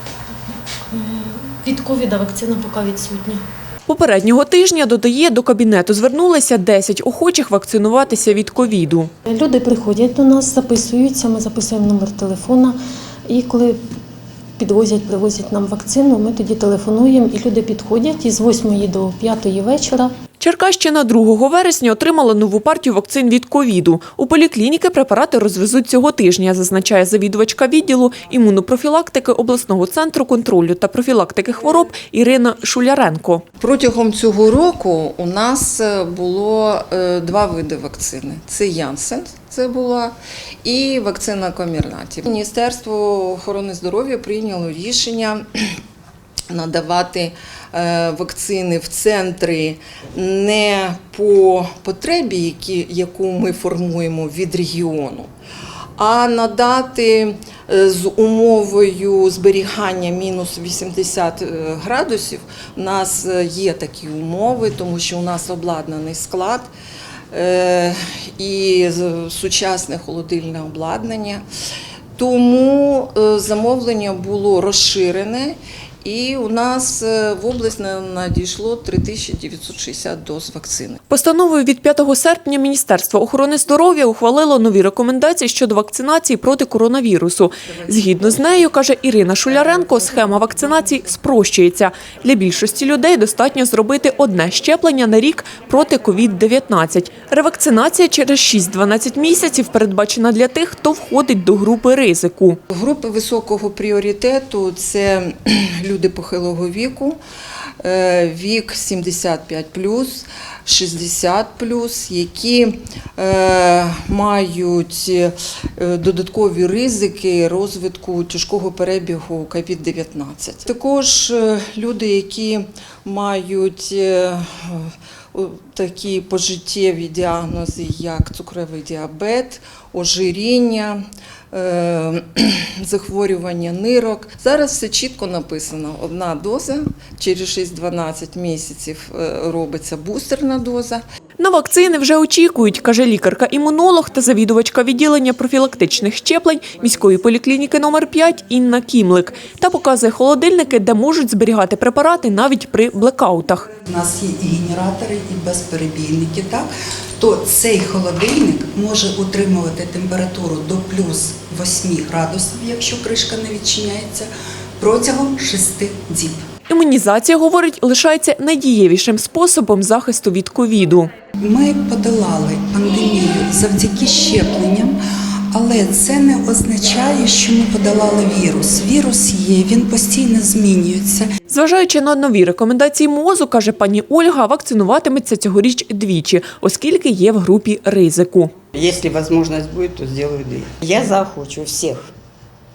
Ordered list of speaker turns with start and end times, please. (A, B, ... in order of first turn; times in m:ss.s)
0:00.9-0:03.4 A
0:03.9-0:09.1 B
0:09.2-0:12.8 A
0:13.3-0:13.8 A
0:14.6-0:20.1 A
0:20.4-0:33.4 B
0:33.6-0:45.4 C
0:46.5-0:55.3 C
0:56.0-1:06.7 C
1:07.3-1:11.4 C
1:12.2-1:21.0 C
1:21.1-1:42.6 B
1:42.7-1:47.2 C
1:47.8-2:21.0 C
2:21.4-2:33.7 B
2:33.8-2:46.4 D
2:46.7-2:51.1 B
2:51.4-2:55.0 D
2:55.5-3:01.3 D
3:01.5-3:08.5 B
3:08.7-3:12.1 E